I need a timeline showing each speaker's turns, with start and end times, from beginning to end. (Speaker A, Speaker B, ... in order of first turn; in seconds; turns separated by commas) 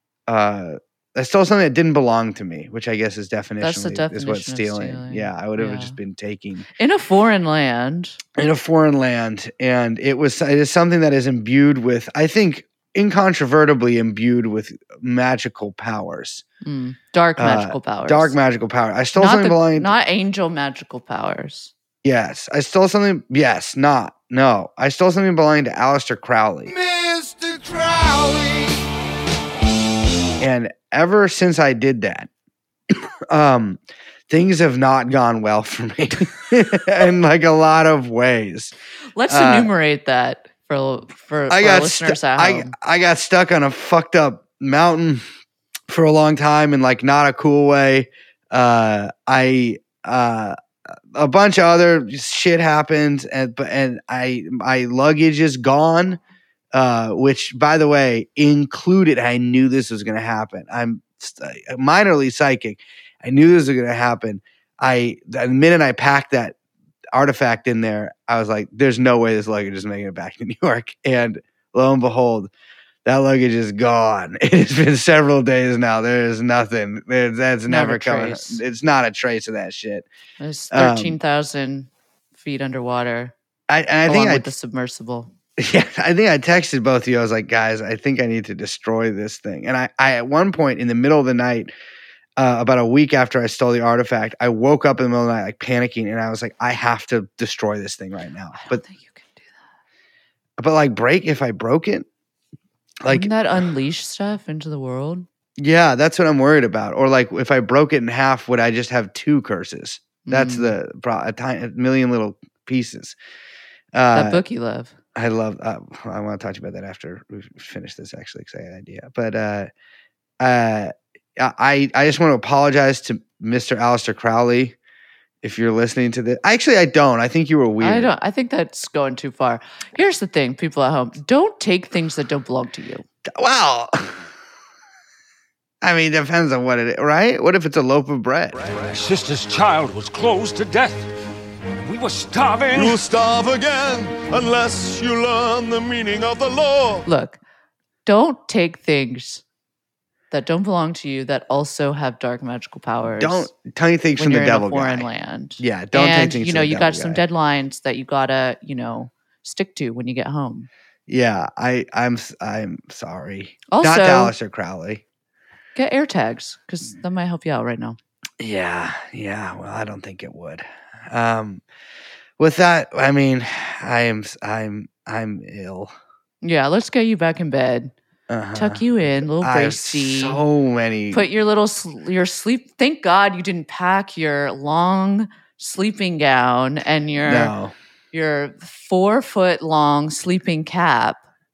Speaker A: 0.3-6.7, Speaker B: 3.6-6.0, Speaker B: 6.7-8.2, Speaker A: 8.3-16.4, Speaker B: 16.6-18.4, Speaker A: 17.4-19.9, Speaker B: 19.1-21.7, Speaker A: 22.0-26.7, Speaker C: 26.7-28.8, Speaker A: 30.4-32.3, Speaker A: 32.9-38.7, Speaker B: 39.1-42.7, Speaker A: 39.3-39.7, Speaker A: 41.5-45.2, Speaker A: 45.9-50.5, Speaker A: 51.1-56.2, Speaker A: 56.7-66.5, Speaker A: 67.1-72.5, Speaker A: 73.0-80.0, Speaker B: 77.7-78.6, Speaker B: 80.4-83.3, Speaker A: 80.7-81.2, Speaker A: 83.7-84.5, Speaker B: 84.0-85.3, Speaker A: 85.6-91.7, Speaker A: 92.4-98.8, Speaker B: 98.5-99.6, Speaker A: 100.6-102.1, Speaker A: 103.0-103.3, Speaker B: 103.0-105.2, Speaker A: 105.6-113.2, Speaker B: 110.3-110.7, Speaker A: 113.9-114.4, Speaker B: 114.1-114.9, Speaker A: 115.1-119.7, Speaker A: 120.4-124.8, Speaker A: 125.4-128.1, Speaker B: 127.8-133.0, Speaker A: 133.3-134.3, Speaker A: 135.8-138.7, Speaker D: 138.7-141.1, Speaker D: 141.8-143.0, Speaker C: 142.7-147.1, Speaker B: 147.1-147.4, Speaker B: 148.1-149.4, Speaker B: 150.3-153.5, Speaker A: 153.2-155.1, Speaker B: 154.2-160.7, Speaker A: 155.6-157.2, Speaker A: 161.1-165.0, Speaker B: 163.7-164.3, Speaker B: 165.7-168.0, Speaker A: 168.4-171.6, Speaker A: 172.4-175.9, Speaker B: 176.4-177.9, Speaker A: 178.3-181.2, Speaker B: 178.5-180.4, Speaker B: 181.1-187.5, Speaker A: 187.2-187.7, Speaker B: 188.1-191.2